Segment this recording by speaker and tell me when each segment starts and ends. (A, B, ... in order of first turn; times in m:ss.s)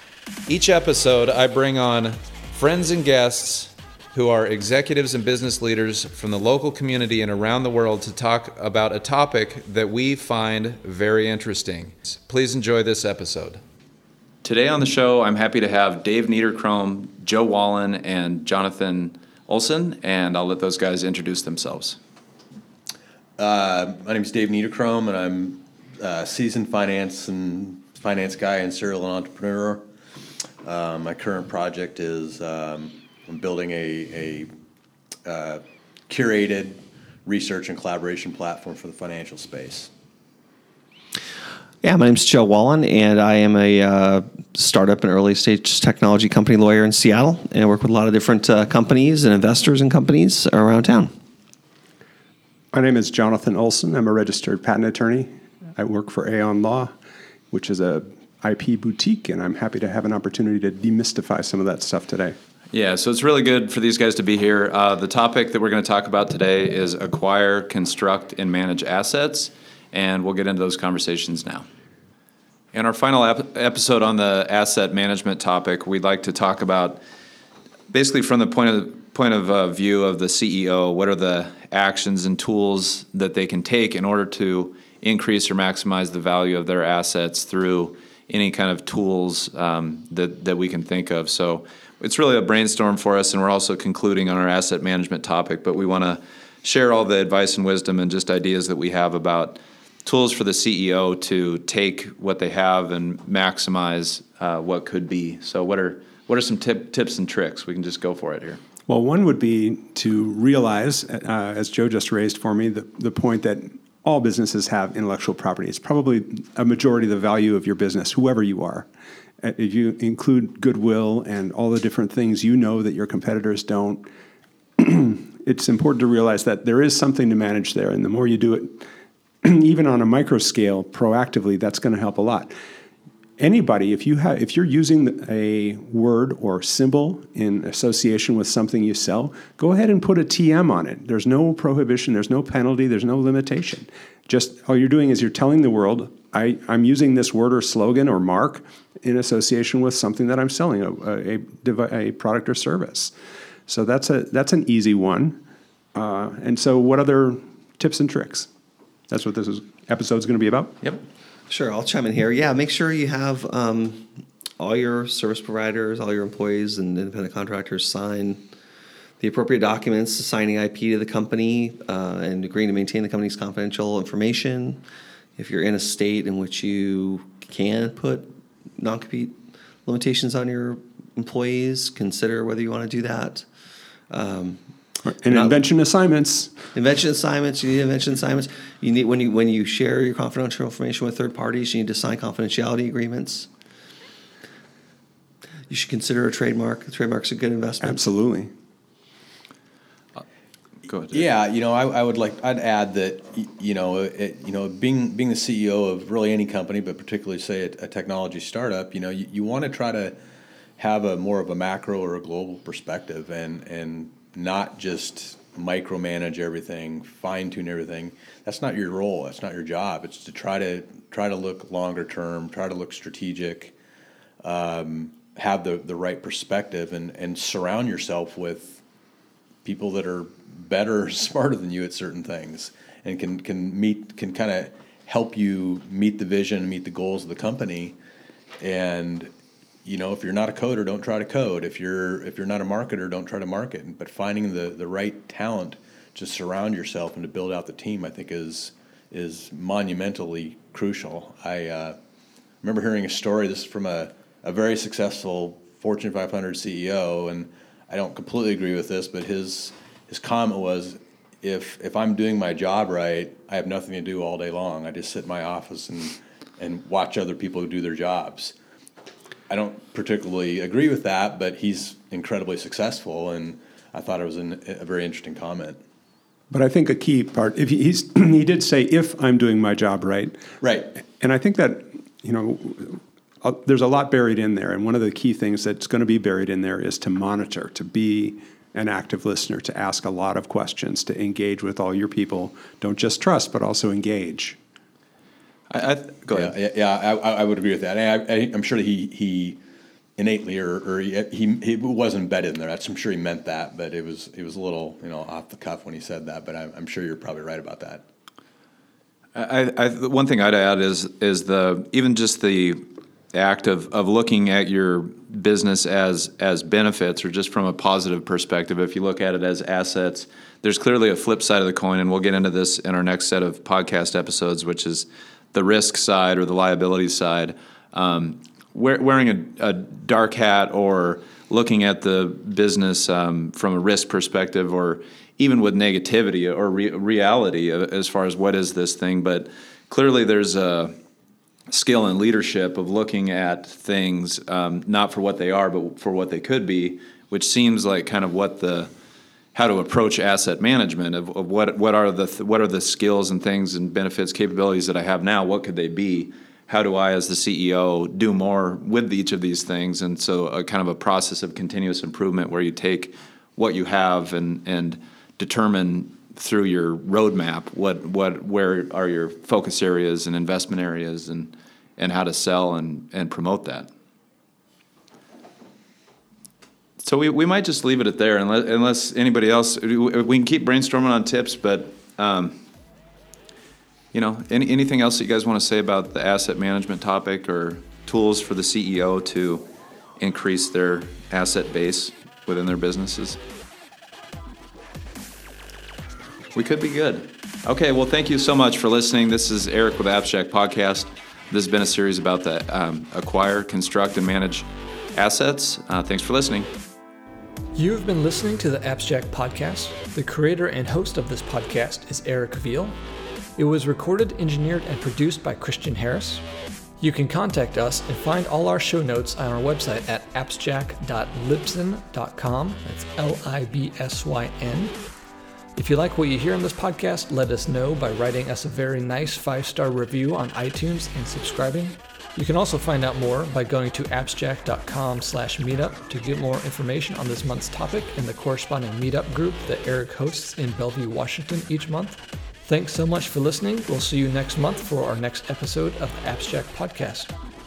0:00.5-0:13.6 A
0:14.4-0:22.0 A
0:23.4-0:29.8 B
0:30.6-0:34.5 B
0:35.2-0:39.9 B
0:41.8-0:51.1 C
0:52.7-0:56.9 D
0:57.5-1:02.4 D
1:02.7-1:11.7 A
1:12.7-1:17.0 A
1:17.9-1:48.6 A
1:48.9-1:58.9 D
1:59.4-2:04.1 D
2:04.8-2:08.9 D
2:09.4-2:12.5 D
2:13.4-2:33.1 D
2:33.7-2:35.4 D
2:36.0-2:38.5 D
2:39.1-2:40.9 D
2:41.5-2:48.4 C
2:49.2-2:54.8 C
2:55.4-2:58.3 C
2:58.8-3:03.5 C
3:04.1-3:04.6 C
3:05.0-3:06.5 D
3:06.8-3:13.5 C
3:15.7-3:17.9 C
3:17.8-3:18.5 D
3:20.9-3:21.2 A
3:21.1-3:30.2 B
3:30.8-3:43.7 B
3:44.4-3:48.8 B
3:49.6-3:58.0 B
3:58.6-3:59.3 B
3:59.8-4:12.0 B
4:12.6-4:28.6 B
4:29.5-4:35.8 B
4:36.5-4:54.6 D
4:40.6-4:40.9 B
4:55.7-4:56.6 A
4:56.3-4:59.6 B
5:00.2-5:08.0 B
5:09.4-5:41.0 A
5:41.7-5:48.9 A
5:49.5-6:13.9 A
6:17.0-6:22.6 A
6:24.1-6:29.7 A
6:30.2-6:33.4 A
6:36.5-6:46.7 A
6:47.8-6:53.0 E
6:53.6-6:56.4 E
6:57.0-7:05.0 E
7:05.8-7:27.3 E